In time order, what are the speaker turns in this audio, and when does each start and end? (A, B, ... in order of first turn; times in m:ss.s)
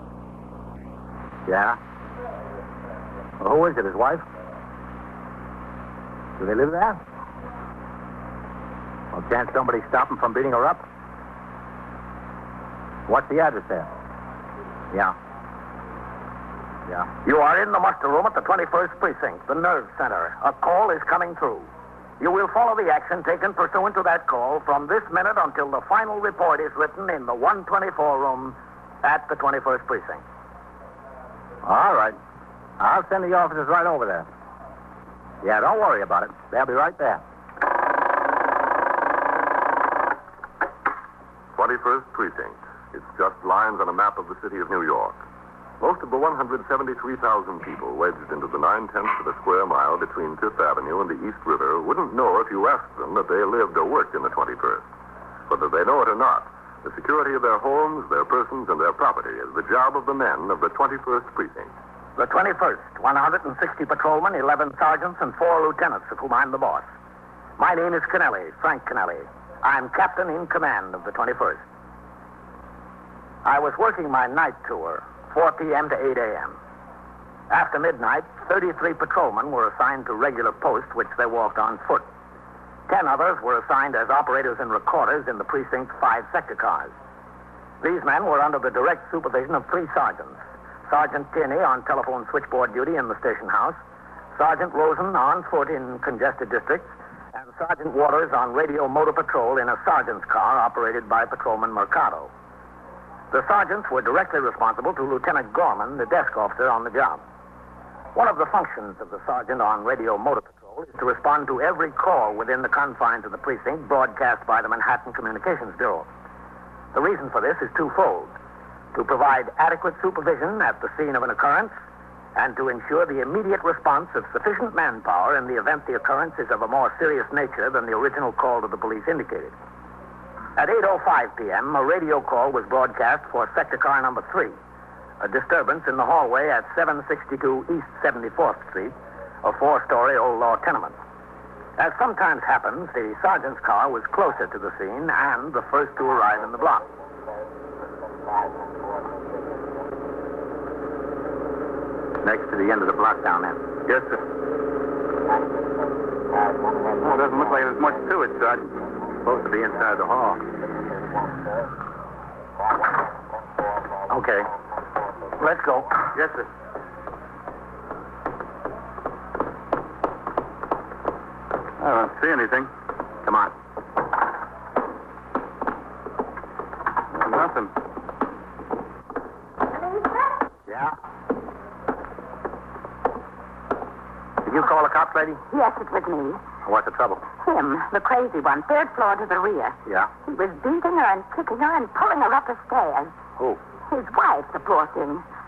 0:01.5-0:01.8 A
0:03.4-0:04.2 A
0:06.4-0:07.0 A
0:09.1-0:10.8 A
0:13.1-0:13.9 A
0:17.2-0:21.7 B
0:22.2-0:30.2 B
0:31.6-0:32.2 A
0:32.8-0:34.3 A
0:35.4-0:37.2 A
0:41.6-0:45.2 C
0:45.8-0:54.8 C
0:55.5-1:01.7 C
1:02.2-1:06.9 B
1:07.6-1:11.6 B
1:13.4-1:16.6 B
1:17.5-1:22.1 B
1:22.9-1:26.9 B
1:27.8-1:33.8 B
1:34.4-1:42.3 B
1:43.3-1:47.2 B
1:48.2-1:56.1 B
1:56.9-1:58.4 B
1:58.9-2:01.7 B
2:02.4-2:09.6 B
2:10.6-2:14.6 B
2:15.2-2:21.0 B
2:21.8-2:26.9 B
2:32.2-2:33.6 A
2:33.9-2:34.2 D
2:37.0-2:38.7 D
2:39.2-2:40.4 A
2:44.1-2:44.5 A
2:45.4-2:45.9 B
2:46.1-2:46.5 D
2:51.8-2:52.7 D
2:53.3-2:53.5 A
2:57.2-2:57.7 D
2:59.7-3:00.4 E
3:00.7-3:01.0 A
3:04.4-3:05.4 A
3:05.5-3:06.4 E
3:06.6-3:07.2 A
3:07.4-3:13.1 E
3:13.9-3:15.2 E